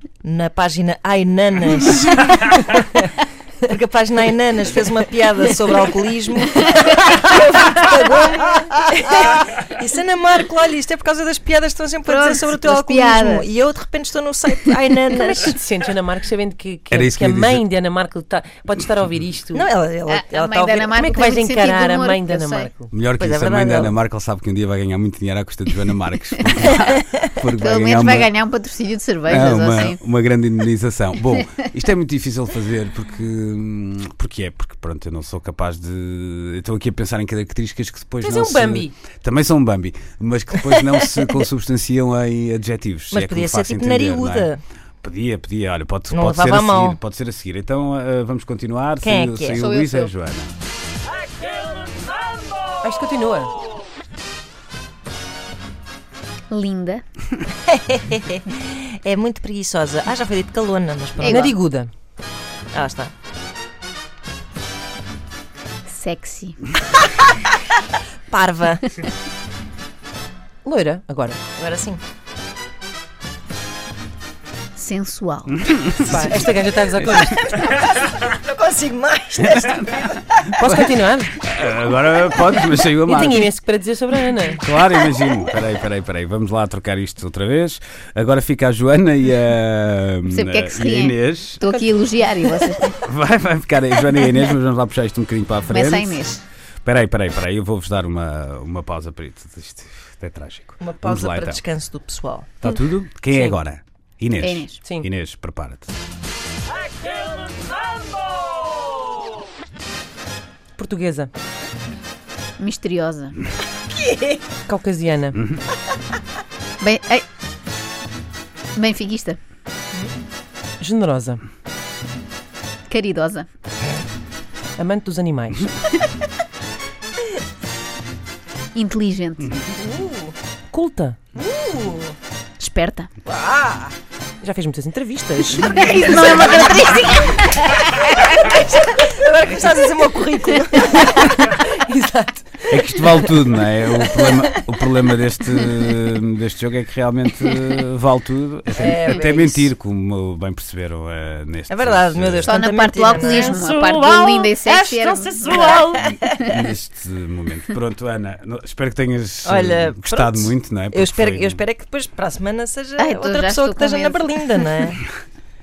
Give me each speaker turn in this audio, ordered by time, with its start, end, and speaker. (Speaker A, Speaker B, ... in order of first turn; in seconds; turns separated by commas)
Speaker A: 0.2-15.6, Speaker B: 6.9-7.3, Speaker C: 12.1-13.5, Speaker B: 15.1-19.7, Speaker D: 16.9-17.6, Speaker A: 19.5-21.1, Speaker C: 20.1-22.7, Speaker B: 20.9-22.9, Speaker D: 22.9-28.3, Speaker A: 23.1-23.9, Speaker C: 27.6-30.0, Speaker D: 29.3-50.5, Speaker B: 38.2-39.0, Speaker A: 43.1-44.6, Speaker A: 46.1-47.0, Speaker A: 49.0-49.6, Speaker C: 49.6-50.1, Speaker B: 52.8-53.5, Speaker C: 56.5-57.0, Speaker A: 57.7-61.6, Speaker B: 61.2-61.9, Speaker A: 62.7-63.1, Speaker C: 65.9-66.5, Speaker A: 68.3-69.1, Speaker B: 70.6-71.4, Speaker A: 71.5-72.0, Speaker C: 74.8-75.5, Speaker D: 75.6-76.1, Speaker B: 76.0-77.5, Speaker A: 77.5-80.2, Speaker D: 79.5-80.1, Speaker B: 80.6-81.3, Speaker D: 80.6-83.5, Speaker B: 83.0-84.6, Speaker D: 84.6-91.7, Speaker C: 90.3-93.0, Speaker D: 93.0-96.2, Speaker C: 95.7-96.4, Speaker D: 96.8-101.6, Speaker A: 100.8-102.7, Speaker D: 102.6-105.9, Speaker C: 104.4-104.8, Speaker B: 104.8-105.1, Speaker B: 110.8-111.3, Speaker C: 112.6-113.3, Speaker A: 113.9-114.4, Speaker B: 114.7-115.4, Speaker C: 116.8-117.2, Speaker C: 118.7-119.4, Speaker B: 120.8-121.4, Speaker C: 122.9-123.5, Speaker B: 124.8-125.7, Speaker C: 128.7-129.5, Speaker A: 129.8-130.3, Speaker B: 130.7-131.3, Speaker A: 131.3-132.1, Speaker C: 132.6-133.1, Speaker B: 133.2-136.7, Speaker C: 135.8-137.7, Speaker A: 136.1-136.6, Speaker A: 137.8-141.4, Speaker B: 140.8-143.4, Speaker D: 142.7-152.5, Speaker A: 148.7-149.7, Speaker A: 151.7-153.7, Speaker C: 152.5-155.7, Speaker B: 153.2-156.0, Speaker A: 155.5-156.5, Speaker D: 156.3-161.6, Speaker C: 156.4-156.6, Speaker A: 159.4-165.0, Speaker C: 163.0-164.3